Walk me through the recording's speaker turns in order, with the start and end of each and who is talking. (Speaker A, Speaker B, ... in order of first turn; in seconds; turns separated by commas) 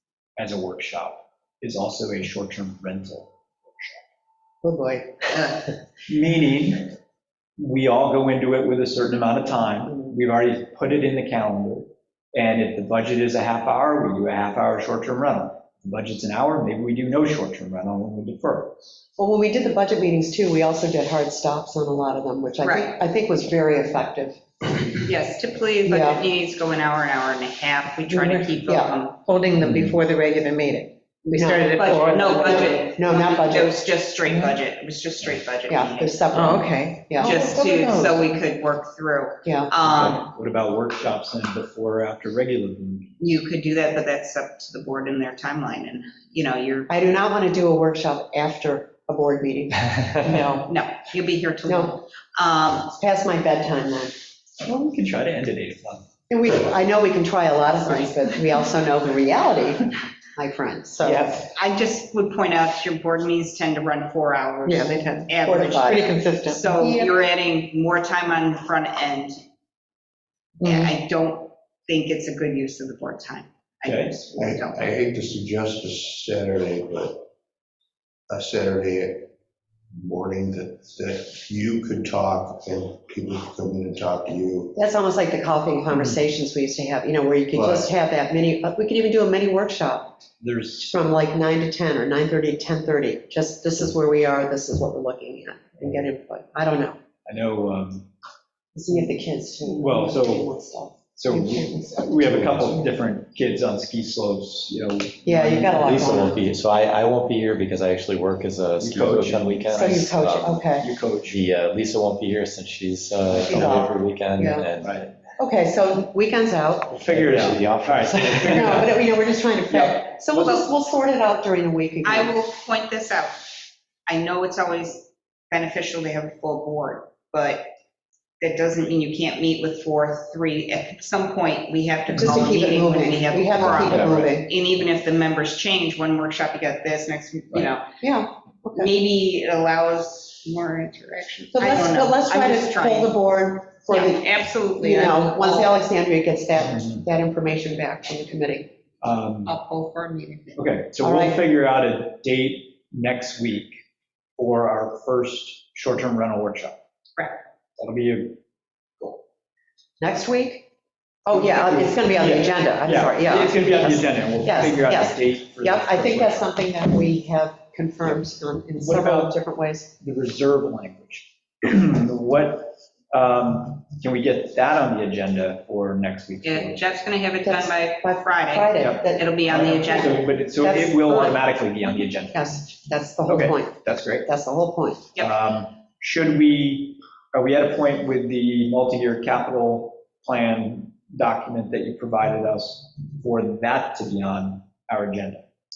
Speaker A: 0.4-4.0, Speaker B: 4.6-5.6, Speaker A: 6.1-6.9, Speaker A: 7.6-18.7, Speaker B: 19.2-24.4, Speaker C: 22.6-22.9, Speaker C: 25.0-29.2, Speaker B: 25.9-26.2, Speaker D: 28.2-28.5, Speaker B: 28.6-28.9, Speaker D: 29.2-32.9, Speaker A: 29.6-29.9, Speaker B: 31.3-33.7, Speaker C: 31.7-36.5, Speaker B: 35.7-37.5, Speaker D: 36.4-38.2, Speaker C: 37.2-40.3, Speaker B: 39.4-39.7, Speaker A: 39.8-43.1, Speaker C: 43.2-46.9, Speaker B: 46.9-50.6, Speaker C: 50.6-52.9, Speaker B: 51.7-52.0, Speaker B: 52.9-54.1, Speaker A: 54.6-56.0, Speaker B: 56.3-61.4, Speaker C: 57.8-58.1, Speaker A: 61.0-61.4, Speaker C: 61.5-69.4, Speaker B: 64.7-67.1, Speaker B: 70.6-70.9, Speaker C: 70.6-74.9, Speaker A: 73.8-74.1, Speaker E: 74.3-77.2, Speaker E: 78.3-79.3, Speaker E: 79.9-84.7, Speaker B: 84.7-90.2, Speaker A: 85.9-86.2, Speaker E: 87.5-87.9, Speaker A: 90.4-91.0, Speaker B: 90.9-97.0, Speaker A: 97.2-98.1, Speaker B: 98.7-102.7, Speaker A: 99.6-100.5, Speaker A: 101.2-106.3, Speaker B: 105.2-106.5, Speaker F: 105.8-110.6, Speaker A: 108.8-110.0, Speaker B: 109.7-110.9, Speaker A: 110.8-111.4, Speaker F: 111.3-115.1, Speaker B: 113.4-114.7, Speaker A: 114.8-115.1, Speaker B: 115.4-117.0, Speaker A: 117.0-119.0, Speaker F: 117.1-118.6, Speaker B: 118.1-122.3, Speaker A: 119.7-120.0, Speaker C: 120.3-120.7, Speaker C: 122.0-123.5, Speaker C: 124.1-127.7, Speaker C: 128.4-137.9, Speaker A: 132.1-132.4, Speaker B: 132.2-134.5, Speaker B: 138.0-138.9, Speaker C: 138.7-143.1, Speaker B: 141.5-148.7, Speaker C: 143.9-145.8, Speaker A: 146.7-147.0, Speaker A: 149.0-149.5, Speaker C: 149.5-150.6, Speaker D: 149.7-150.0, Speaker A: 150.5-153.8, Speaker B: 151.0-151.4, Speaker A: 154.4-156.8, Speaker A: 157.8-158.4, Speaker B: 160.0-160.7, Speaker B: 161.2-169.9, Speaker A: 161.3-166.5, Speaker A: 168.8-169.4, Speaker A: 170.0-176.9, Speaker C: 176.4-180.4, Speaker B: 177.4-181.1, Speaker A: 178.8-182.5, Speaker C: 181.0-181.4, Speaker B: 182.3-185.0, Speaker A: 183.3-184.3, Speaker A: 185.2-195.4